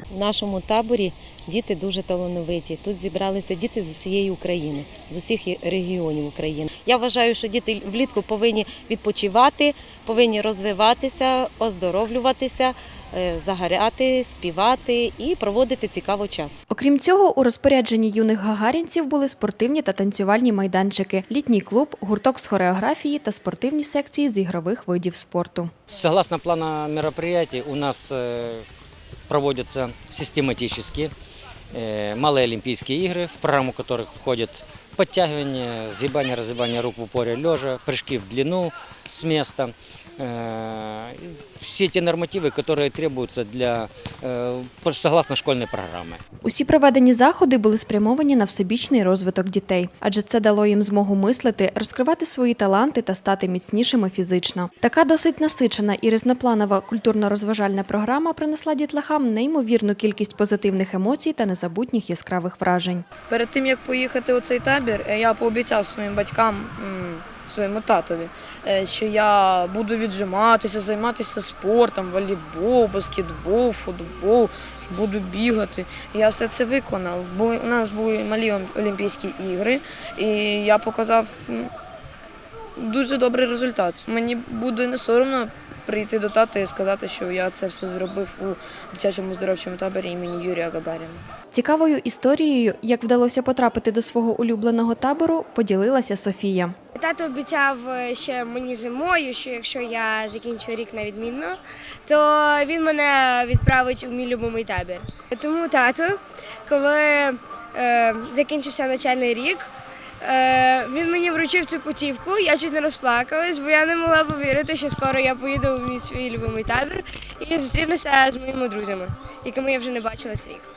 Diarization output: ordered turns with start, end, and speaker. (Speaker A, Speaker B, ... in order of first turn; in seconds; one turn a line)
Speaker A: 0.1-16.6
Speaker B: 16.7-25.7
Speaker C: 25.9-28.6
Speaker C: 29.3-31.1
Speaker C: 31.7-46.2
Speaker B: 46.4-63.0
Speaker D: 63.3-81.7
Speaker D: 82.8-91.2
Speaker B: 91.5-96.7
Speaker E: 97.0-109.7
Speaker E: 110.2-120.7